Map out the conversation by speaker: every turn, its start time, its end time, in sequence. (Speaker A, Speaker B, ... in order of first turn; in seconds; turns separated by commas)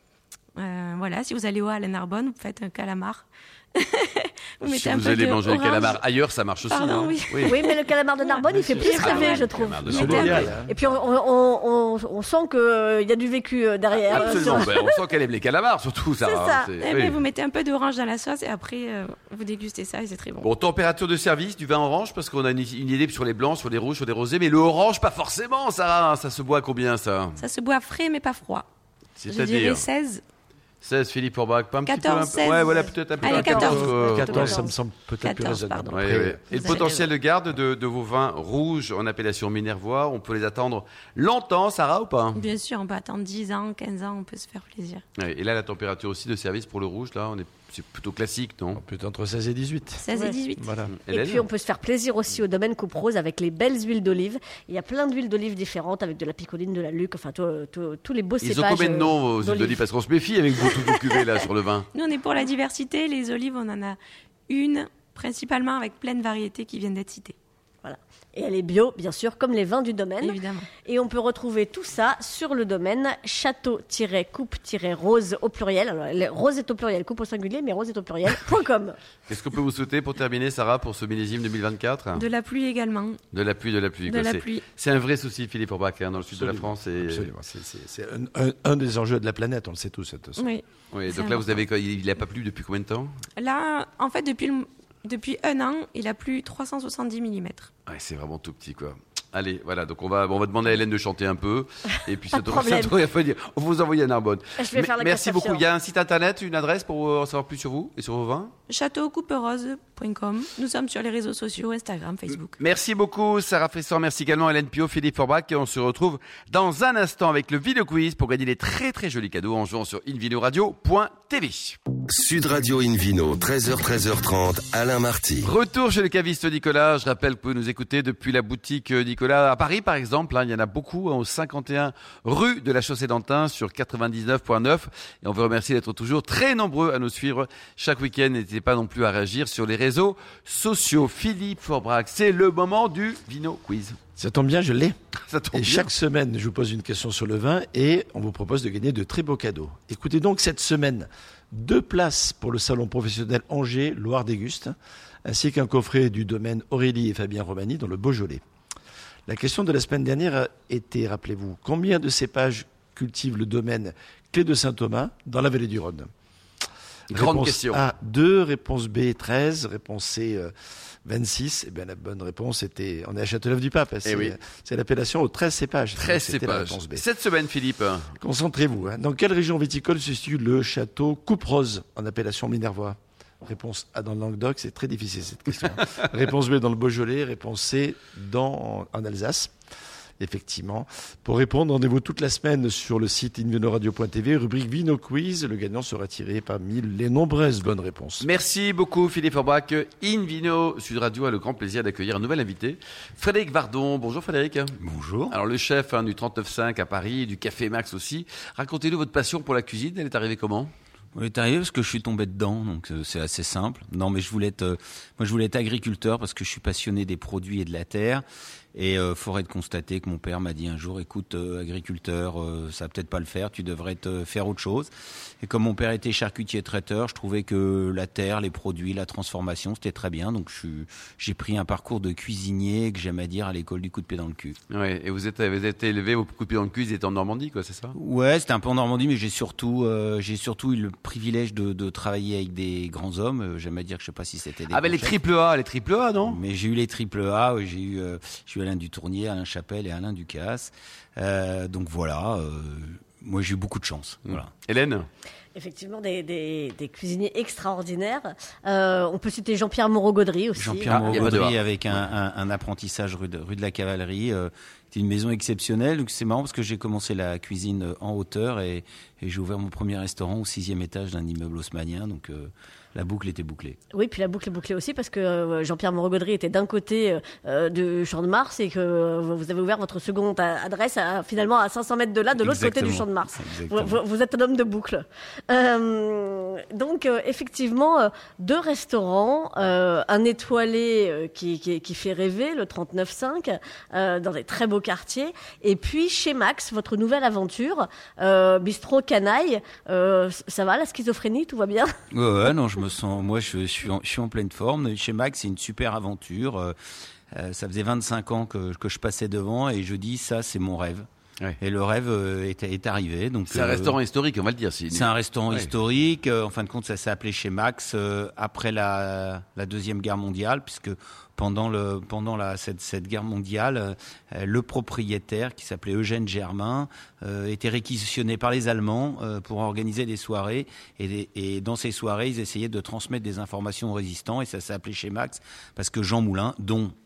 Speaker A: 0.6-6.0, Speaker B: 4.6-7.5, Speaker A: 6.6-10.5, Speaker C: 7.5-14.8, Speaker D: 8.5-8.9, Speaker B: 9.0-10.5, Speaker D: 9.8-10.8, Speaker B: 14.0-17.2, Speaker A: 14.1-14.7, Speaker C: 16.2-16.7, Speaker A: 16.8-20.5, Speaker B: 20.4-27.4, Speaker A: 27.4-28.7, Speaker B: 29.2-29.9, Speaker A: 29.2-30.2, Speaker B: 30.8-34.4, Speaker A: 31.9-35.9, Speaker C: 32.7-34.7, Speaker D: 33.2-36.7, Speaker B: 35.9-42.4, Speaker A: 36.5-37.1, Speaker A: 42.4-45.0, Speaker B: 45.2-48.8, Speaker D: 48.8-50.1, Speaker A: 50.0-50.8, Speaker C: 50.1-50.4, Speaker D: 50.6-51.0, Speaker B: 50.9-51.5, Speaker C: 51.1-59.8, Speaker B: 58.4-61.9, Speaker A: 60.9-61.2, Speaker A: 61.9-64.0, Speaker A: 64.5-67.3, Speaker C: 67.8-79.0, Speaker A: 70.2-70.7, Speaker B: 79.3-82.3, Speaker A: 82.1-83.2, Speaker B: 83.3-87.3, Speaker A: 84.0-84.6, Speaker D: 86.3-90.5, Speaker A: 90.4-91.6, Speaker B: 90.9-93.1, Speaker A: 93.4-97.7, Speaker B: 97.9-108.5, Speaker C: 102.3-102.9, Speaker C: 104.6-105.6, Speaker A: 108.7-112.6, Speaker B: 112.6-121.8, Speaker E: 122.1-125.5, Speaker B: 125.4-144.0, Speaker D: 144.2-145.0, Speaker B: 145.3-145.9, Speaker D: 145.5-158.4, Speaker D: 159.3-166.1, Speaker B: 167.1-167.8, Speaker D: 167.1-170.5, Speaker D: 171.1-177.0, Speaker B: 174.0-174.3, Speaker B: 175.9-178.1, Speaker D: 178.2-189.5, Speaker D: 190.2-198.2, Speaker B: 198.2-204.8, Speaker F: 204.8-205.4, Speaker B: 205.3-210.7, Speaker F: 211.1-218.2, Speaker F: 218.8-224.9, Speaker F: 225.4-234.6, Speaker B: 234.7-237.9, Speaker F: 237.9-245.2, Speaker B: 244.7-246.4, Speaker F: 246.2-254.5, Speaker B: 254.3-255.1, Speaker C: 255.6-261.4, Speaker F: 260.6-273.8, Speaker B: 260.9-261.6, Speaker C: 273.9-301.9, Speaker F: 282.4-284.0, Speaker F: 302.1-306.8, Speaker F: 307.3-311.1, Speaker F: 311.6-314.0, Speaker B: 313.5-315.7, Speaker F: 314.9-336.9